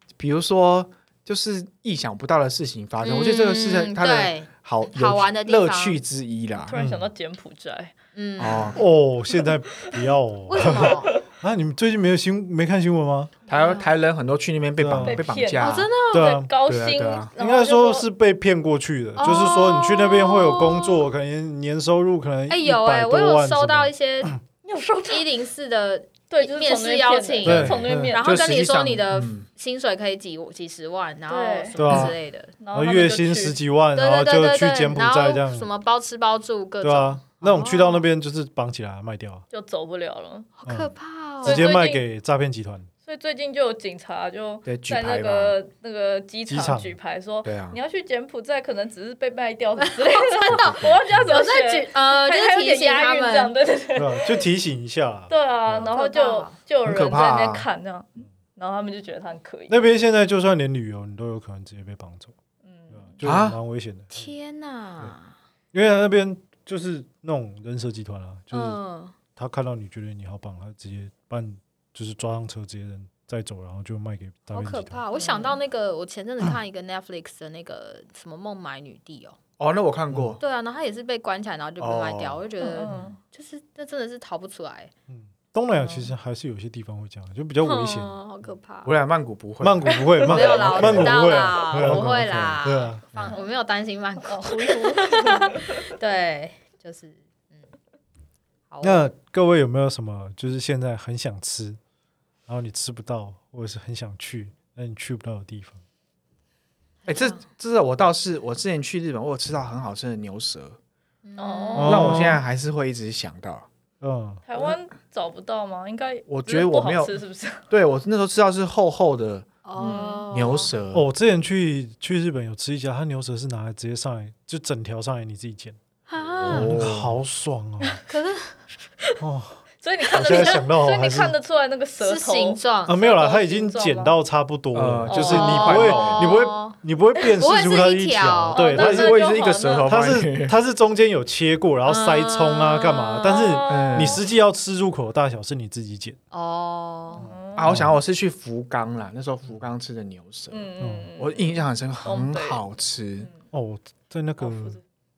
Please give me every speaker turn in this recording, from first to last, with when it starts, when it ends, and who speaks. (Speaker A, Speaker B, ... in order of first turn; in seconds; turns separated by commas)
Speaker A: 0.2-6.7, Speaker B: 3.0-6.0, Speaker C: 6.7-7.9, Speaker D: 6.7-7.1, Speaker B: 8.1-8.8, Speaker A: 8.4-8.8, Speaker D: 8.8-13.3, Speaker B: 10.5-11.2, Speaker C: 10.6-11.2, Speaker A: 13.5-15.9, Speaker B: 13.5-13.9, Speaker D: 14.8-15.2, Speaker C: 15.0-18.1, Speaker B: 15.6-16.4, Speaker D: 16.1-16.5, Speaker A: 16.6-17.3, Speaker D: 17.4-24.4, Speaker B: 19.2-21.0, Speaker B: 22.5-24.4, Speaker C: 24.6-25.3, Speaker B: 25.1-32.5, Speaker C: 26.3-28.4, Speaker D: 27.4-28.1, Speaker A: 28.2-29.5, Speaker C: 31.3-31.8, Speaker D: 31.8-32.1, Speaker C: 32.6-33.5, Speaker D: 32.7-35.7, Speaker B: 34.0-38.0, Speaker D: 36.8-39.4, Speaker C: 39.5-40.5, Speaker B: 40.6-41.7, Speaker D: 41.4-42.9, Speaker C: 41.4-42.0, Speaker C: 43.0-54.4, Speaker A: 44.6-45.5, Speaker D: 46.5-46.9, Speaker A: 47.4-47.8, Speaker B: 49.8-53.5, Speaker D: 54.0-55.9, Speaker C: 55.3-59.8, Speaker B: 55.8-56.6, Speaker A: 56.8-57.6, Speaker D: 59.7-62.3, Speaker C: 62.6-63.2, Speaker D: 62.9-64.3, Speaker A: 63.2-63.6, Speaker B: 64.1-65.3, Speaker D: 65.7-68.8, Speaker B: 68.5-69.1, Speaker D: 69.3-75.0, Speaker B: 74.5-79.4, Speaker C: 75.1-75.6, Speaker A: 79.6-80.4, Speaker B: 80.4-84.9, Speaker A: 81.8-82.4, Speaker C: 82.6-83.2, Speaker D: 85.1-88.2, Speaker C: 85.8-86.1, Speaker B: 87.6-88.9, Speaker A: 88.8-92.1, Speaker D: 89.6-93.3, Speaker C: 89.9-90.3, Speaker B: 90.2-97.6, Speaker C: 91.3-91.7, Speaker C: 94.2-95.8, Speaker B: 98.7-99.0, Speaker D: 98.8-101.8, Speaker D: 102.5-105.8, Speaker B: 107.0-107.4, Speaker A: 107.0-110.8, Speaker B: 111.2-112.0, Speaker C: 111.4-112.1, Speaker D: 111.8-112.4, Speaker A: 111.8-113.7, Speaker D: 114.0-114.4, Speaker C: 114.5-117.6, Speaker A: 116.3-117.1, Speaker A: 117.7-119.5, Speaker B: 119.6-120.7, Speaker C: 119.8-120.2, Speaker A: 120.3-121.0, Speaker D: 120.9-125.8, Speaker B: 126.1-126.7, Speaker A: 126.3-127.2, Speaker D: 126.5-128.0, Speaker B: 128.1-128.5, Speaker D: 129.2-129.6, Speaker C: 129.8-134.2, Speaker D: 130.1-131.3, Speaker B: 130.2-130.6, Speaker B: 132.0-133.0, Speaker D: 132.9-139.2, Speaker A: 134.7-136.3, Speaker C: 135.1-135.9, Speaker B: 135.2-136.8, Speaker B: 137.3-138.7, Speaker C: 138.5-139.9, Speaker A: 138.7-140.5, Speaker D: 139.8-146.2, Speaker B: 141.8-143.6, Speaker C: 143.2-144.2, Speaker A: 143.7-144.2, Speaker B: 146.3-147.3, Speaker C: 147.1-147.7, Speaker A: 147.6-150.7, Speaker D: 147.7-147.9, Speaker C: 150.5-151.5, Speaker D: 150.8-151.1, Speaker A: 151.2-153.3, Speaker C: 152.0-152.6, Speaker D: 153.5-154.8, Speaker C: 154.4-154.8